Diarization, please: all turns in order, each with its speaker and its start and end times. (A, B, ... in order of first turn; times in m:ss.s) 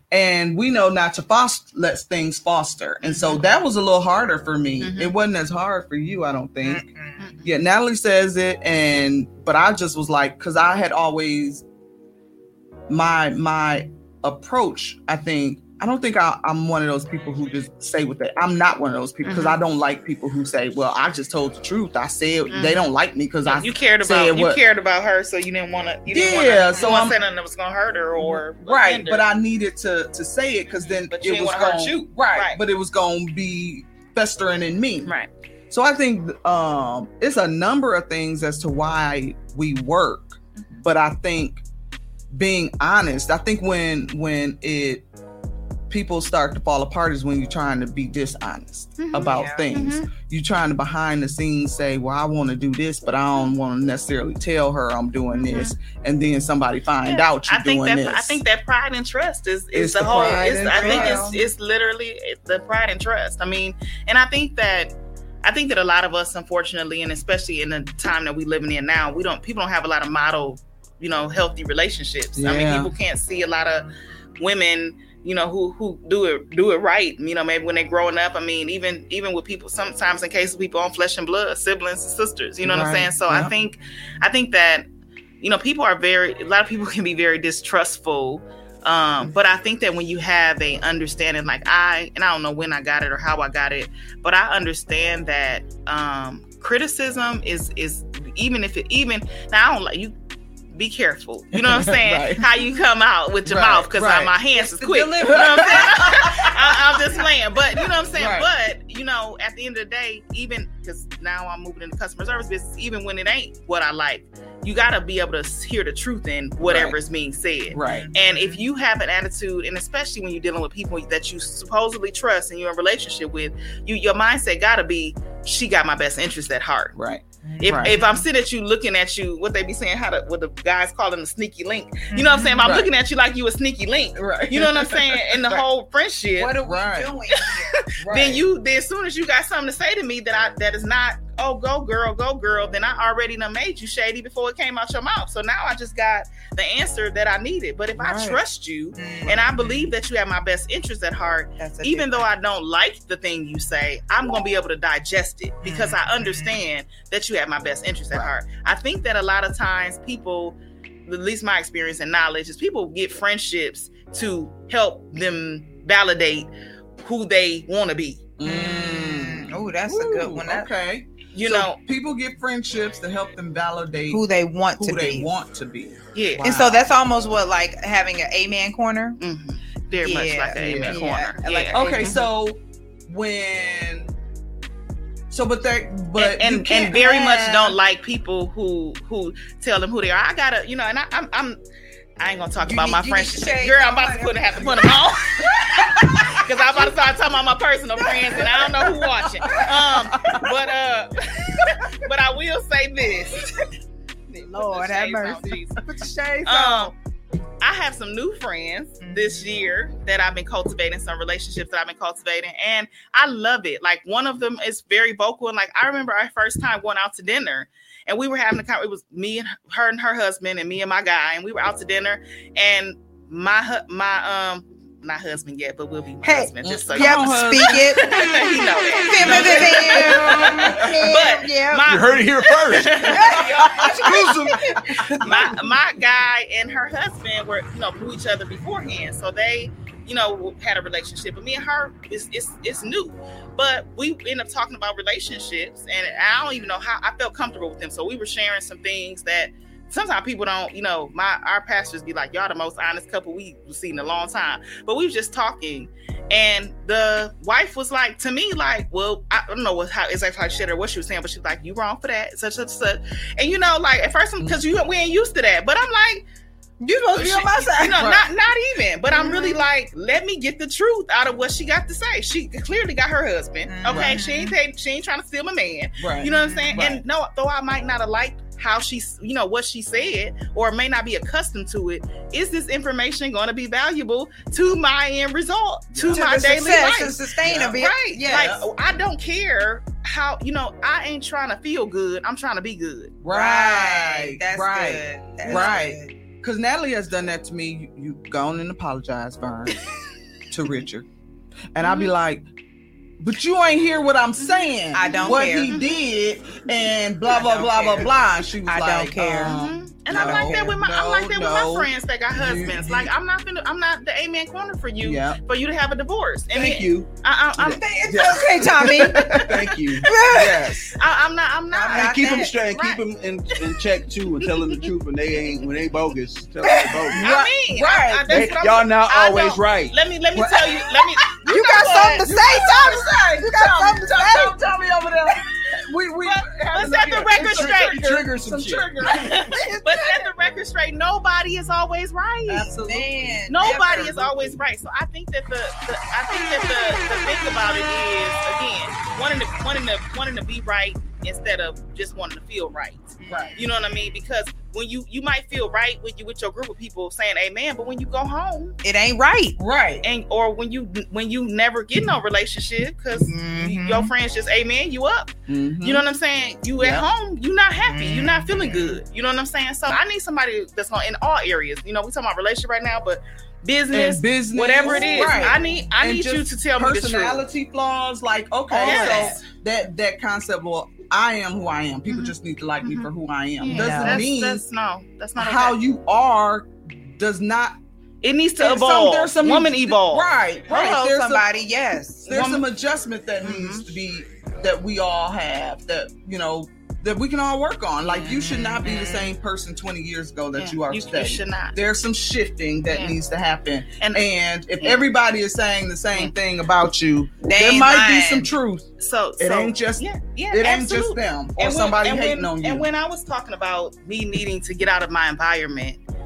0:00.1-0:06.9 A
0:03.0-0:03.4 B
0:04.8-0:05.1 B
0:06.6-0:07.3 C
0:07.2-0:07.5 B
0:07.4-0:11.6 A
0:12.9-0:24.6 A
0:19.2-0:19.6 B
0:22.5-0:22.8 B
0:23.4-0:29.2 B
0:26.1-0:27.2 A
0:28.2-0:35.1 A
0:30.9-0:32.6 B
0:35.7-0:41.6 A
0:42.3-0:45.1 A
0:45.9-0:58.4 A
0:49.0-0:50.1 B
0:49.2-0:49.7 C
0:55.3-0:55.8 B
0:57.0-1:04.9 B
0:59.7-1:01.4 A
1:00.0-1:01.4 C
1:05.4-1:13.9 B
1:12.4-1:12.9 A
1:14.4-1:24.9 B
1:22.6-1:23.5 A
1:25.4-1:40.1 B
1:40.7-2:06.9 B
1:41.5-1:42.4 A
1:43.4-1:44.3 A
1:44.6-1:46.2 C
1:45.3-1:46.6 A
1:48.1-1:48.5 A
1:56.6-1:57.0 A
1:57.7-1:58.1 A
1:57.8-1:58.6 C
2:06.9-2:08.0 A
2:07.4-2:08.2 C
2:07.6-2:16.6 B
2:12.1-2:12.6 C
2:12.5-2:12.9 A
2:14.1-2:15.6 A
2:16.4-2:17.8 C
2:16.4-2:17.3 A
2:17.4-2:46.5 B
2:18.0-2:18.4 A
2:28.0-2:28.4 A
2:29.0-2:29.9 C
2:31.6-2:32.3 C
2:35.6-2:36.6 C
2:47.0-2:48.3 B
2:48.4-2:56.9 A
2:48.4-2:50.7 C
2:51.3-2:51.8 B
2:54.1-2:55.3 C
2:56.1-2:56.4 B
2:56.4-2:59.2 C
2:59.2-3:02.2 B
2:59.9-3:02.2 C
3:00.6-3:01.0 A
3:01.7-3:04.1 A
3:05.3-3:07.8 A
3:06.2-3:11.6 B
3:12.2-3:23.7 B
3:12.6-3:15.0 C
3:18.4-3:20.5 A
3:24.3-3:25.8 B
3:24.3-3:26.9 C
3:25.5-3:26.1 A
3:26.4-3:26.9 B
3:27.6-3:54.5 B
3:29.0-3:29.5 C
3:46.2-3:48.1 C
3:46.6-3:48.5 A
3:49.0-3:51.9 C
3:49.2-3:50.9 A
3:51.8-3:54.6 D
3:53.1-3:54.9 C
3:55.0-3:55.7 A
3:55.2-4:26.2 B
4:26.8-4:28.0 C
4:27.1-4:28.3 A
4:27.2-4:53.2 B
4:29.1-4:29.6 C
4:33.7-4:34.6 C
4:33.9-4:34.2 A
4:36.0-4:37.0 A
4:36.2-4:37.0 C
4:45.9-4:46.2 A
4:46.1-4:48.6 C
4:47.4-4:48.6 A
4:53.2-4:59.8 A
4:53.3-4:56.1 C
4:55.5-4:55.7 B
5:00.5-5:01.1 A
5:01.7-5:02.4 A
5:01.8-5:02.1 B
5:03.2-5:13.1 A
5:04.9-5:05.7 C
5:05.1-5:05.9 B
5:07.3-5:08.1 B
5:08.7-5:09.6 C
5:09.4-5:17.8 B
5:10.1-5:10.8 C
5:15.0-5:15.4 A
5:16.5-5:17.1 D
5:16.6-5:17.0 A
5:17.6-5:19.4 C
5:18.0-5:20.9 A
5:19.3-5:20.1 D
5:20.0-5:20.9 C
5:20.9-5:22.5 B
5:21.7-5:22.9 C
5:21.9-5:27.2 D
5:26.6-5:27.2 C
5:27.2-5:28.5 A
5:27.2-5:32.3 B
5:28.3-5:30.0 D
5:30.4-5:30.9 A
5:31.5-5:34.6 C
5:31.5-5:39.5 A
5:36.2-5:38.2 B
5:37.3-5:39.0 D
5:39.1-5:42.7 B
5:39.5-5:40.1 C
5:42.5-5:44.5 A
5:42.7-5:44.3 C
5:43.5-5:58.8 B
5:53.2-5:53.6 C
5:53.3-5:53.6 A
5:58.8-5:59.6 C
5:59.6-6:00.1 A
6:00.0-6:17.4 B
6:03.2-6:04.1 C
6:05.5-6:06.0 A
6:06.8-6:07.1 A
6:07.8-6:09.0 C
6:13.9-6:24.6 A
6:14.8-6:15.9 C
6:18.7-6:19.4 C
6:18.7-6:19.4 B
6:22.1-6:23.1 B
6:23.6-6:25.8 B
6:23.7-6:24.2 C
6:25.4-6:27.8 A
6:28.2-6:30.3 B
6:28.6-6:31.5 A
6:30.7-6:32.3 C
6:32.3-6:48.9 A
6:32.3-6:32.6 B
6:33.4-6:33.8 B
6:38.2-6:39.3 C
6:40.6-6:41.8 B
6:42.9-6:43.2 B
6:44.0-6:44.3 B
6:44.8-6:45.1 B
6:47.4-6:48.5 C
6:49.0-6:56.0 B
6:49.4-6:52.9 A